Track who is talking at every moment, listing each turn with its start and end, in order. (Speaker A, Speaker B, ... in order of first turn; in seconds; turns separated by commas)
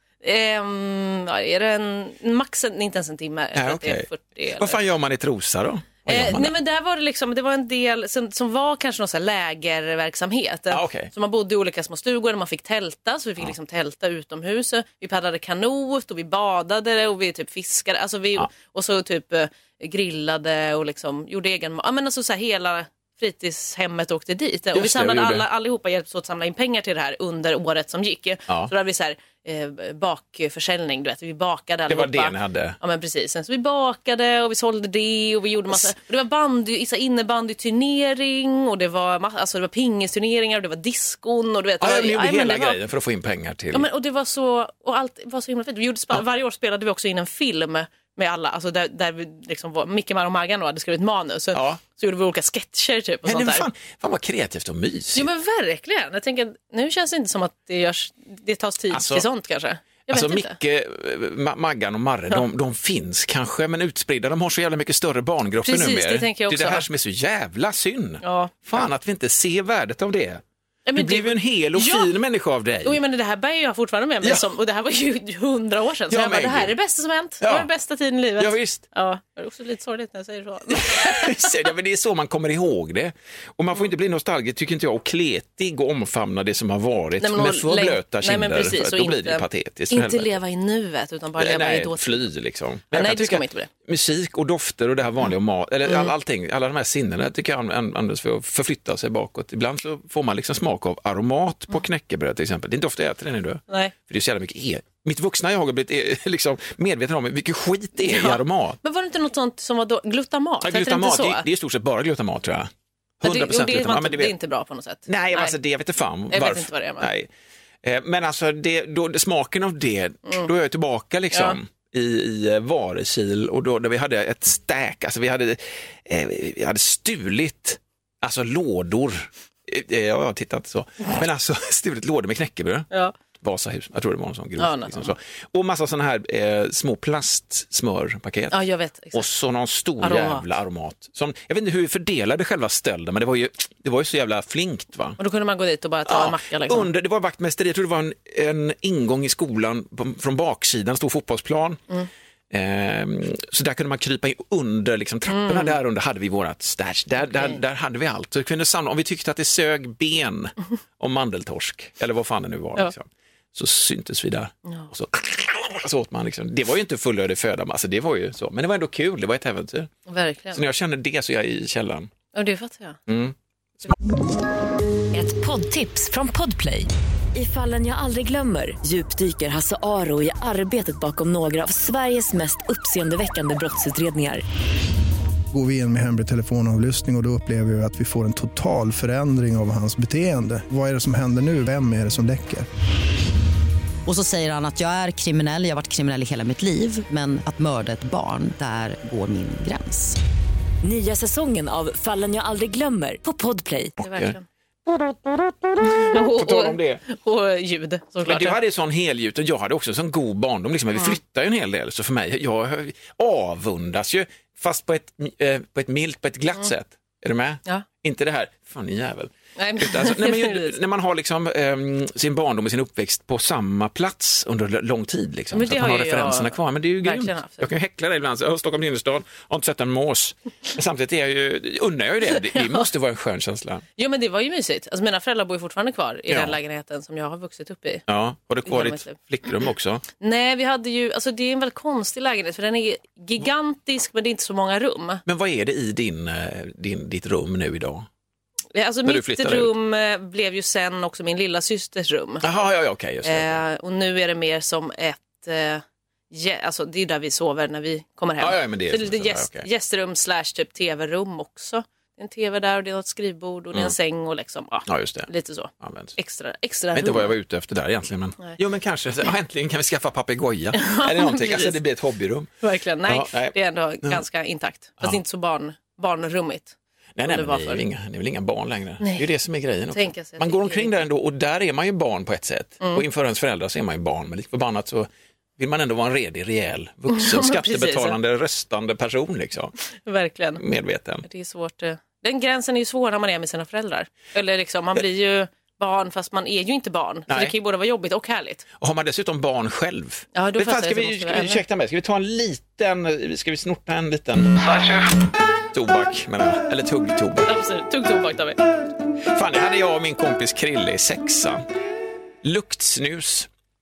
Speaker A: 0.2-4.8, Speaker B: 3.5-6.5, Speaker A: 6.1-42.8, Speaker B: 10.7-11.1, Speaker B: 24.7-25.5, Speaker B: 31.9-32.8, Speaker B: 41.8-43.9, Speaker A: 43.7-53.7, Speaker B: 51.5-51.8, Speaker B: 53.3-55.3, Speaker A: 55.1-60.5, Speaker B: 58.9-59.3, Speaker B: 60.1-70.4, Speaker A: 65.7-66.9, Speaker A: 68.2-68.7, Speaker A: 70.8-72.1, Speaker B: 71.0-73.0, Speaker A: 72.8-81.6, Speaker B: 76.1-76.7, Speaker B: 77.4-77.7, Speaker B: 78.4-78.8, Speaker B: 80.7-90.3, Speaker A: 87.2-92.3, Speaker B: 91.4-108.8, Speaker A: 92.9-93.7, Speaker A: 103.7-103.9, Speaker A: 108.0-111.5, Speaker B: 110.6-112.7, Speaker B: 113.2-114.3, Speaker A: 113.2-115.5, Speaker B: 115.1-117.3, Speaker A: 116.3-117.1, Speaker B: 117.8-138.6, Speaker A: 134.6-135.1, Speaker A: 138.5-139.2, Speaker B: 139.1-145.2, Speaker A: 140.0-140.5, Speaker A: 145.2-146.9, Speaker B: 146.1-151.8, Speaker B: 152.5-169.9, Speaker A: 155.3-155.8, Speaker A: 157.2-157.6, Speaker A: 170.1-170.6, Speaker B: 170.5-172.1, Speaker A: 172.3-173.0, Speaker B: 173.1-173.9, Speaker C: 175.1-184.4, Speaker D: 185.5-192.7, Speaker E: 194.1-200.2, Speaker C: 200.8-204.0, Speaker B: 204.0-204.4, Speaker A: 204.0-204.4, Speaker B: 204.9-207.0, Speaker A: 205.8-208.6, Speaker B: 208.2-233.8, Speaker A: 219.6-220.8, Speaker A: 225.5-227.7, Speaker A: 232.4-232.9, Speaker A: 234.0-238.0, Speaker B: 236.3-236.6, Speaker B: 238.1-240.0, Speaker A: 238.7-239.2, Speaker A: 240.2-245.2, Speaker B: 245.3-248.1, Speaker A: 248.7-252.4, Speaker B: 249.1-249.7, Speaker B: 252.4-253.6, Speaker A: 253.2-267.3, Speaker B: 258.4-259.7, Speaker B: 264.9-265.3, Speaker B: 265.8-266.1, Speaker B: 266.9-272.5, Speaker A: 270.7-271.8, Speaker A: 272.6-277.8, Speaker B: 273.1-274.2, Speaker B: 277.2-289.7, Speaker A: 279.9-280.9, Speaker A: 287.1-288.2, Speaker A: 290.1-290.6, Speaker B: 290.6-291.2, Speaker A: 291.2-298.6, Speaker B: 297.3-297.5, Speaker B: 298.8-304.9, Speaker A: 300.4-301.6, Speaker B: 305.7-307.5, Speaker A: 307.5-308.6, Speaker B: 309.3-311.6, Speaker B: 312.4-313.5